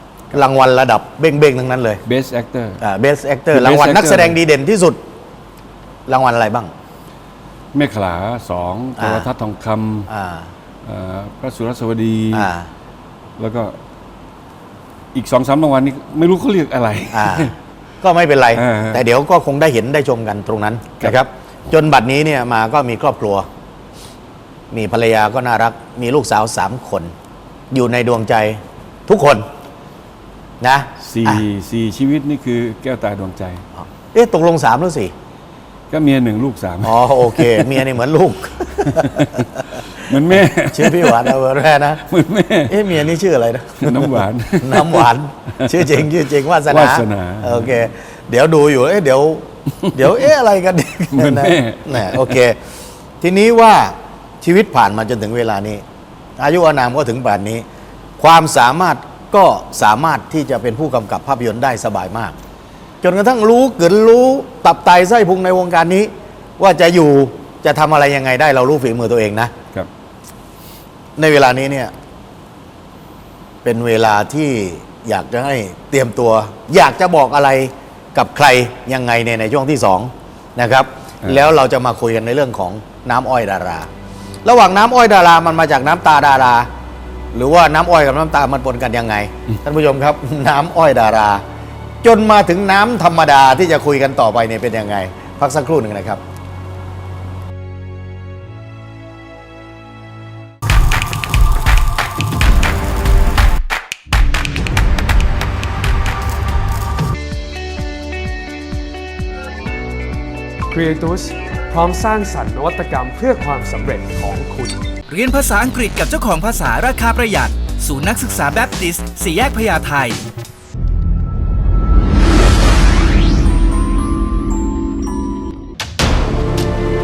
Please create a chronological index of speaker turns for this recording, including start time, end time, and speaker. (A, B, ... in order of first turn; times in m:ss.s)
0:00.3-0:02.0 A
0:02.0-0:02.8 B
0:02.8-0:05.0 A
0:03.5-0:04.4 B
0:06.1-0:06.7 A
0:07.7-0:10.1 B
0:09.0-0:09.3 A
0:10.1-0:10.5 A
0:10.8-0:12.5 B
0:12.3-0:12.7 A
0:13.4-0:13.8 B
0:15.1-0:17.5 B
0:17.1-0:23.5 A
0:18.5-0:19.0 B
0:24.7-0:27.1 A
0:27.7-0:29.4 A
0:30.6-0:31.4 A
0:31.0-0:33.6 B
0:33.8-0:35.1 A
0:35.9-0:37.8 B
0:36.8-0:39.8 A
0:38.7-0:41.3 B
0:40.7-0:42.0 A
0:42.0-0:42.9 B
0:42.7-0:52.6 A
0:43.8-0:46.1 B
0:46.6-0:47.8 B
0:51.1-0:52.4 B
0:53.2-0:55.8 A
0:56.4-0:57.6 A
0:58.2-1:02.3 A
1:03.0-1:09.5 A
1:11.2-1:11.9 A
1:13.6-1:23.9 A
1:21.2-1:21.5 B
1:24.4-1:26.7 A
1:27.3-1:31.4 A
1:32.0-1:36.2 A
1:50.7-1:54.7 C
1:55.1-2:00.2 D